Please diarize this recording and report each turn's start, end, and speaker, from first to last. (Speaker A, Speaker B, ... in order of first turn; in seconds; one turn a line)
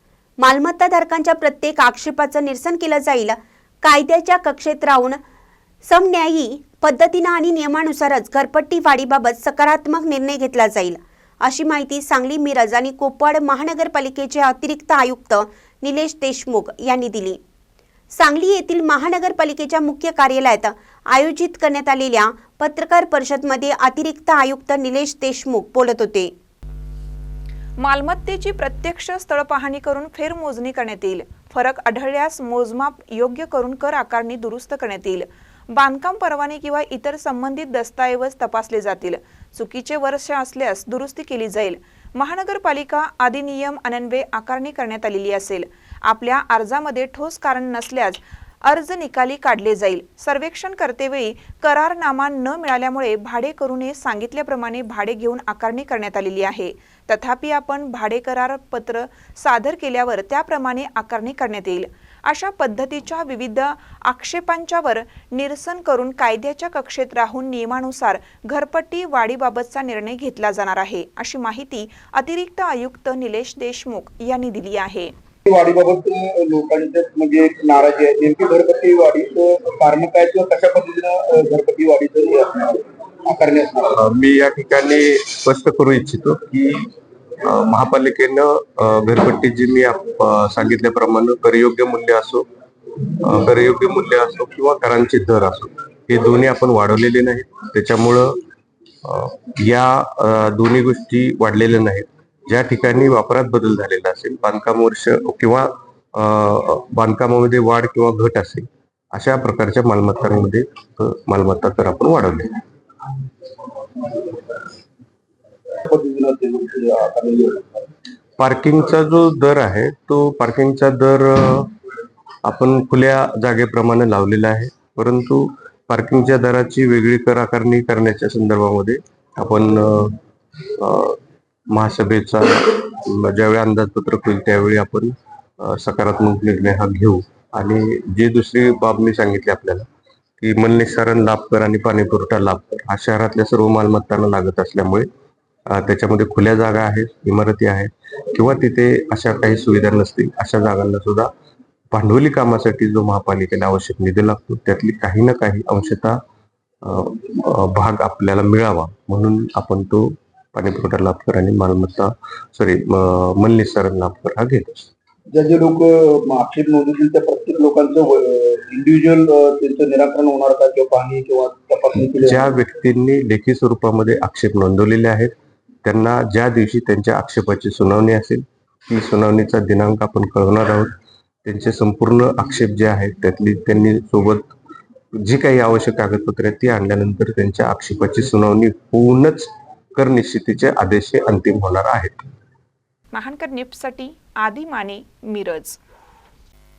Speaker A: 0.4-5.2
Speaker A: 5.8-17.4
Speaker A: 18.1-26.3
Speaker B: 27.8-75.1
Speaker C: 75.5-84.0
Speaker D: 84.0-86.9
Speaker D: 87.4-92.5
Speaker D: 93.2-98.4
Speaker D: 99.0-112.6
Speaker C: 115.8-117.9
Speaker D: 118.4-121.7
Speaker D: 122.4-130.2
Speaker D: 130.8-131.2
Speaker D: 131.7-139.9
Speaker D: 140.4-145.1
Speaker D: 145.7-151.3
Speaker D: 151.9-156.2
Speaker D: 156.8-164.9
Speaker C: 165.3-172.5
Speaker D: 172.2-175.3
Speaker D: 175.8-180.9
Speaker D: 181.4-184.5
Speaker D: 185.2-192.3
Speaker B: 193.1-195.8